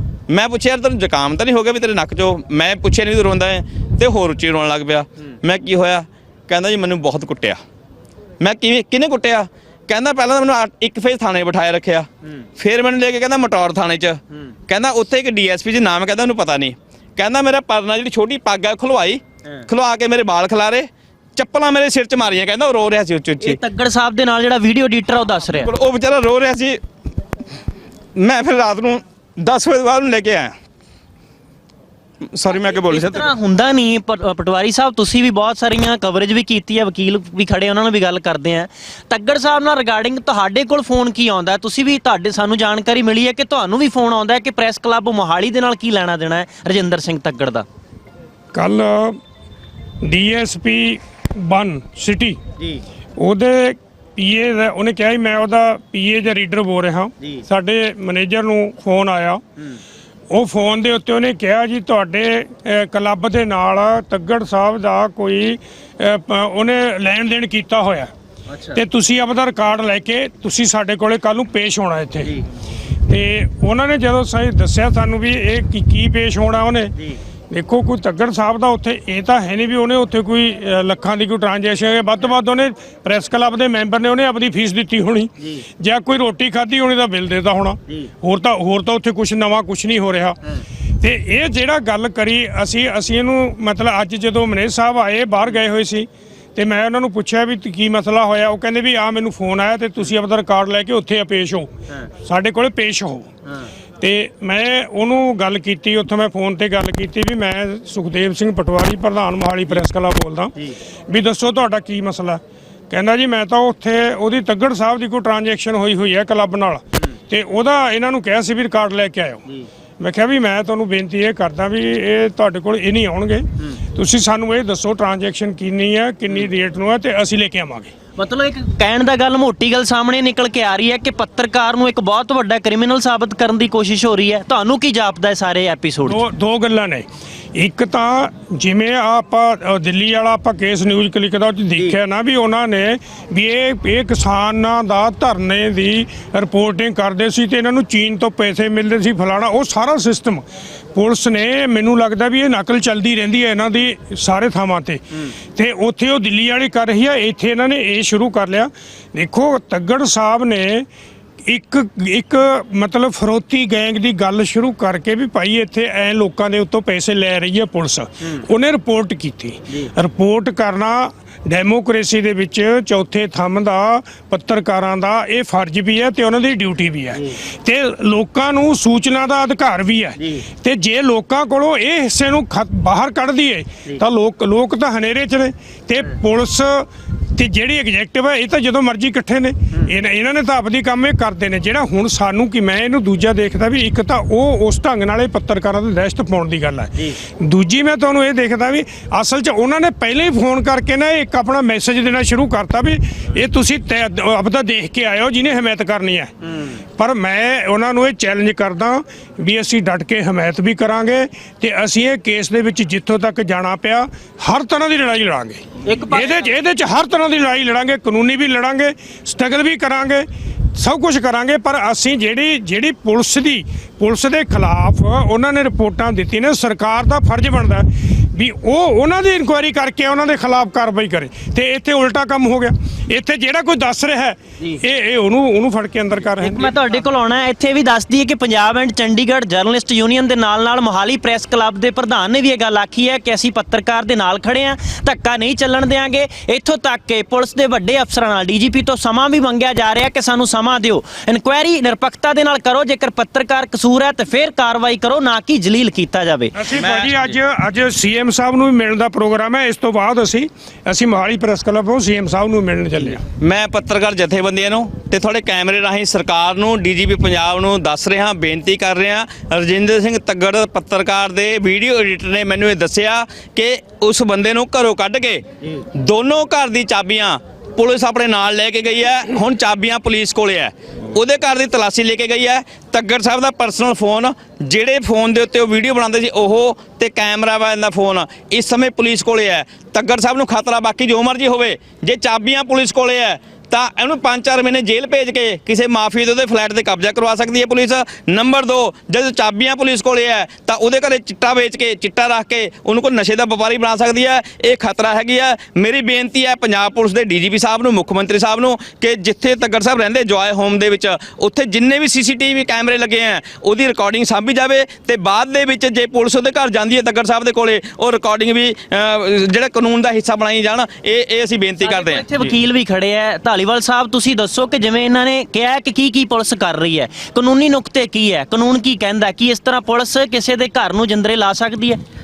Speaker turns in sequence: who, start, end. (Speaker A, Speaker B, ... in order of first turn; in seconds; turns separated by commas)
Speaker A: 0.3-7.6, Speaker A: 8.4-23.6, Speaker B: 23.4-25.7, Speaker A: 25.5-26.8, Speaker A: 28.2-30.5, Speaker A: 32.2-33.3, Speaker B: 32.6-47.7, Speaker C: 48.5-49.2, Speaker C: 50.0-52.4, Speaker C: 53.2-59.4, Speaker C: 60.3-68.1, Speaker B: 68.5-68.8, Speaker C: 68.7-72.3, Speaker C: 73.1-76.9, Speaker C: 77.5-90.4, Speaker C: 91.0-101.7, Speaker C: 102.2-103.3, Speaker C: 104.0-110.5, Speaker C: 111.1-119.4, Speaker C: 120.0-127.9, Speaker B: 128.2-136.2, Speaker C: 136.1-160.9, Speaker C: 161.5-206.3, Speaker C: 207.0-220.3, Speaker B: 215.8-216.5, Speaker C: 220.8-236.7, Speaker B: 236.4-256.6, Speaker C: 256.6-263.2, Speaker A: 256.7-257.3, Speaker A: 263.4-275.4, Speaker A: 276.0-322.5, Speaker B: 321.8-332.0